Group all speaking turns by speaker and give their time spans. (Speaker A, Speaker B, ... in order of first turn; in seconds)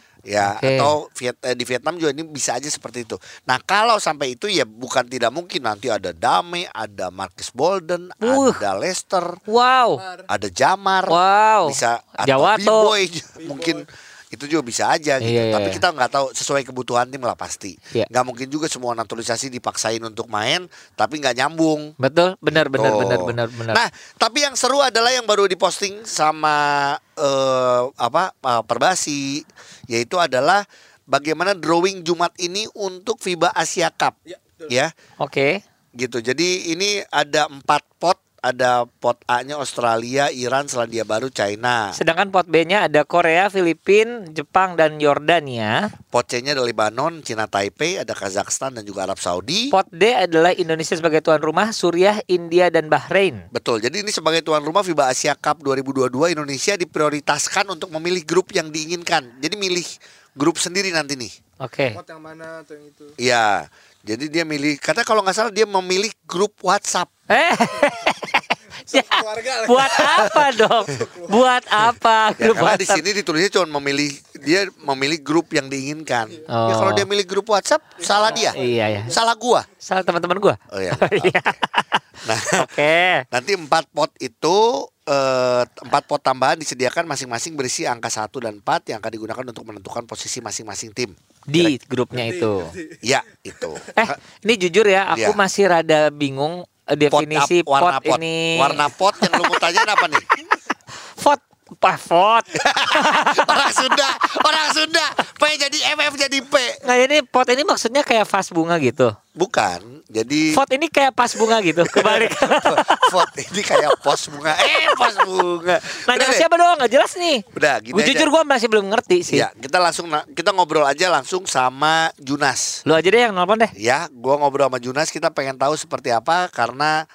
Speaker A: 0.3-9.4, 10.3-21.9, 22.5-34.9, 36.0-41.9, 46.1-49.7, 53.5-61.3, 63.2-67.1, 70.0-70.4, 72.4-79.7, 80.7-81.6, 82.3-82.8, 83.3-91.7, 93.0-94.1, 95.1-95.4, 97.1-100.2, 102.5-106.8, 109.4-110.6, 111.5-116.5, 117.5-118.3, 119.3-122.8, 123.8-127.0
Speaker B: 0.4-0.9, 8.2-8.6, 9.5-10.0, 11.1-12.9, 15.2-15.8, 22.0-23.8, 35.2-35.6, 42.0-45.9, 49.7-53.5, 61.6-62.0, 67.3-73.0, 76.5-77.1, 78.4-79.2, 79.8-82.0, 82.6-83.2, 91.5-92.8, 94.0-99.8, 101.2-103.9, 106.8-109.1, 110.5-113.2, 114.6-115.0, 116.1-119.5, 122.8-123.7
Speaker C: 62.0-63.1, 68.9-69.4, 78.5-78.8